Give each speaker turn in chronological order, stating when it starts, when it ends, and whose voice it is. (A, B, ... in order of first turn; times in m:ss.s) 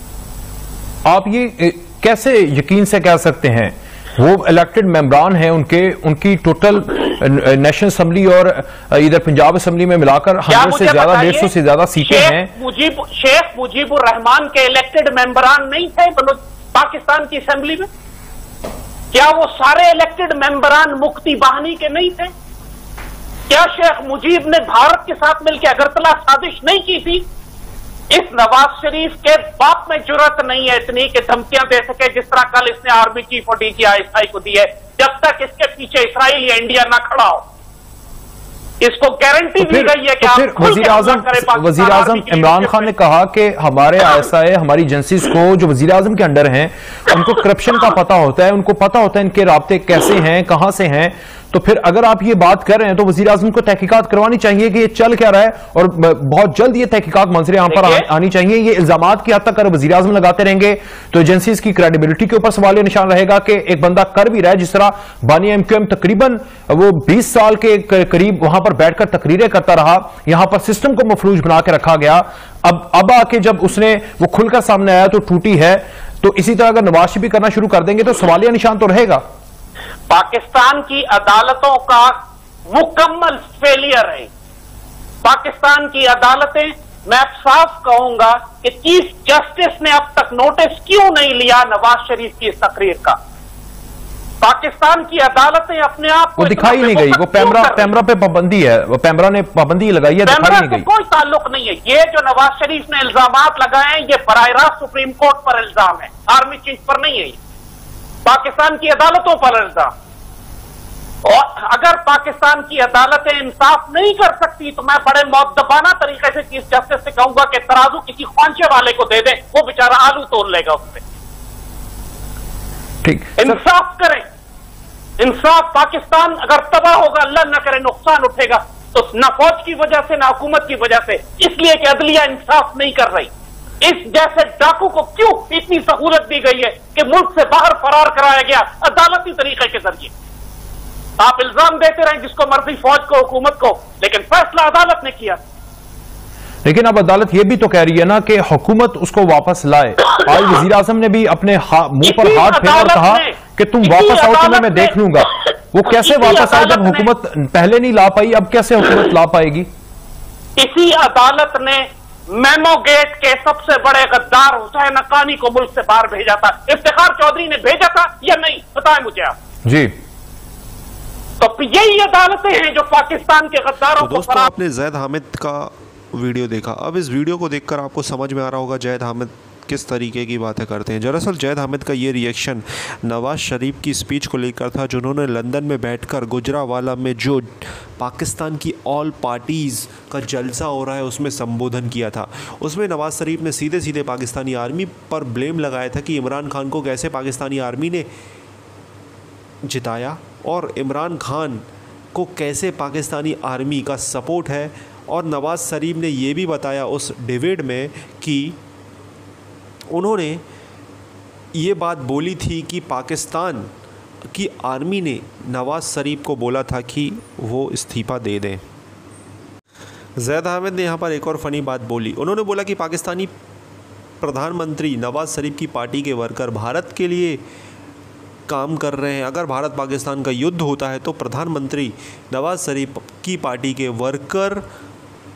0:01.0-0:12.5 A
0:10.5-0:17.9 B
0:19.1-0:22.3 B
0:23.5-0:27.2 B
0:28.1-0:37.4 B
0:38.8-0:42.9 B
0:39.6-1:19.2 A
0:57.7-0:58.1 B
1:20.1-1:22.2 B
1:22.7-1:24.3 B
1:25.2-1:33.2 B
1:34.4-1:37.9 B
1:36.4-1:40.8 A
1:40.2-1:47.4 B
1:48.2-1:49.9 B
1:51.2-2:01.0 B
2:03.0-2:03.6 A
2:03.4-2:04.2 B
2:05.2-2:20.1 B
2:21.2-2:25.4 B
2:26.6-2:39.7 A
2:32.0-2:35.0 B
2:35.8-2:37.1 B
2:40.6-2:49.4 B
2:49.6-2:49.9 A
2:51.4-2:54.5 B
2:54.0-3:18.1 C
3:19.6-3:28.6 C
3:29.9-3:30.4 C
3:31.5-3:33.7 C
3:34.3-3:38.6 C
3:40.2-3:43.3 C
3:44.2-3:47.4 C
3:48.5-3:54.6 C